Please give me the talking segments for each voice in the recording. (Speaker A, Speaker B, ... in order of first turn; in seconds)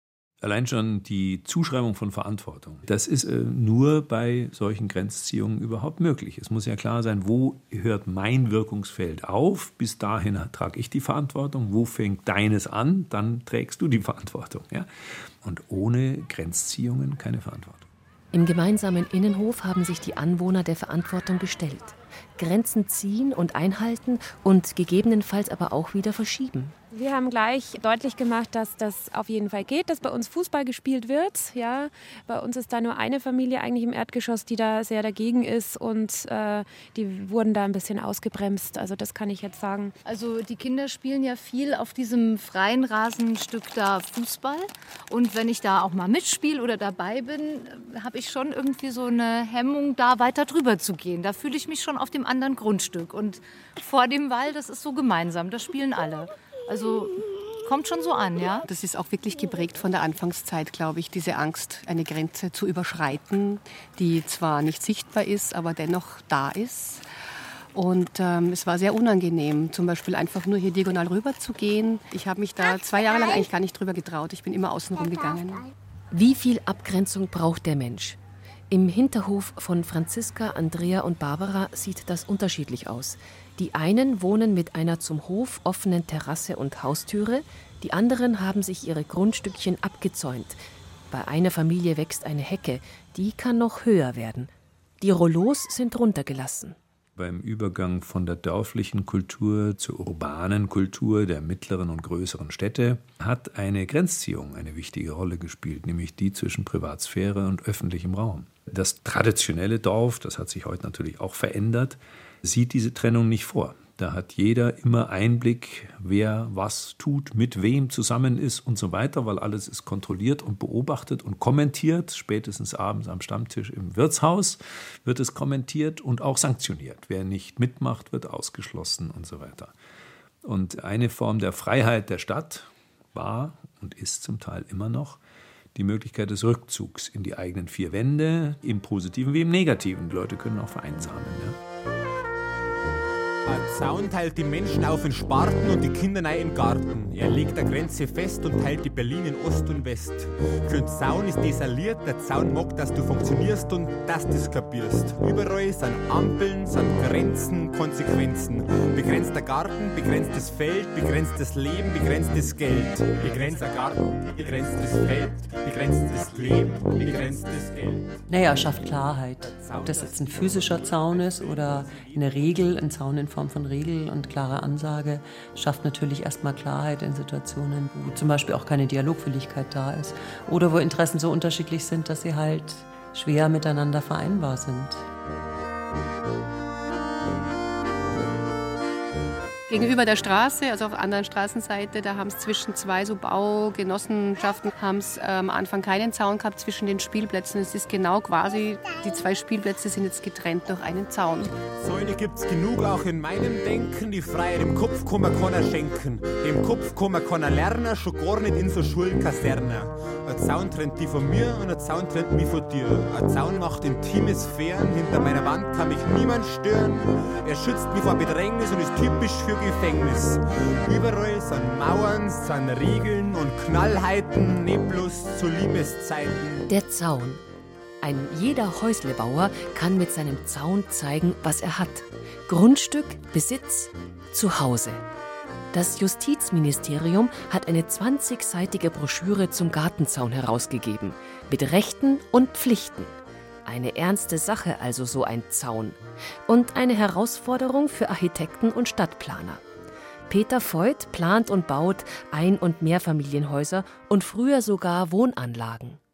Speaker A: 0.4-14.9, 15.4-17.9, 97.2-129.7, 130.4-135.2, 135.7-141.6
Speaker B: 18.3-26.7, 76.1-78.2, 78.7-94.5, 95.0-96.8, 226.7-227.4, 228.0-235.0, 235.7-243.1, 243.6-249.6, 250.3-256.0
Speaker C: 26.9-39.9
Speaker D: 40.0-58.6
Speaker E: 58.7-67.0, 67.7-75.6, 189.7-201.5
Speaker F: 143.4-168.2, 169.4-172.6, 201.8-226.7
Speaker G: 168.3-185.0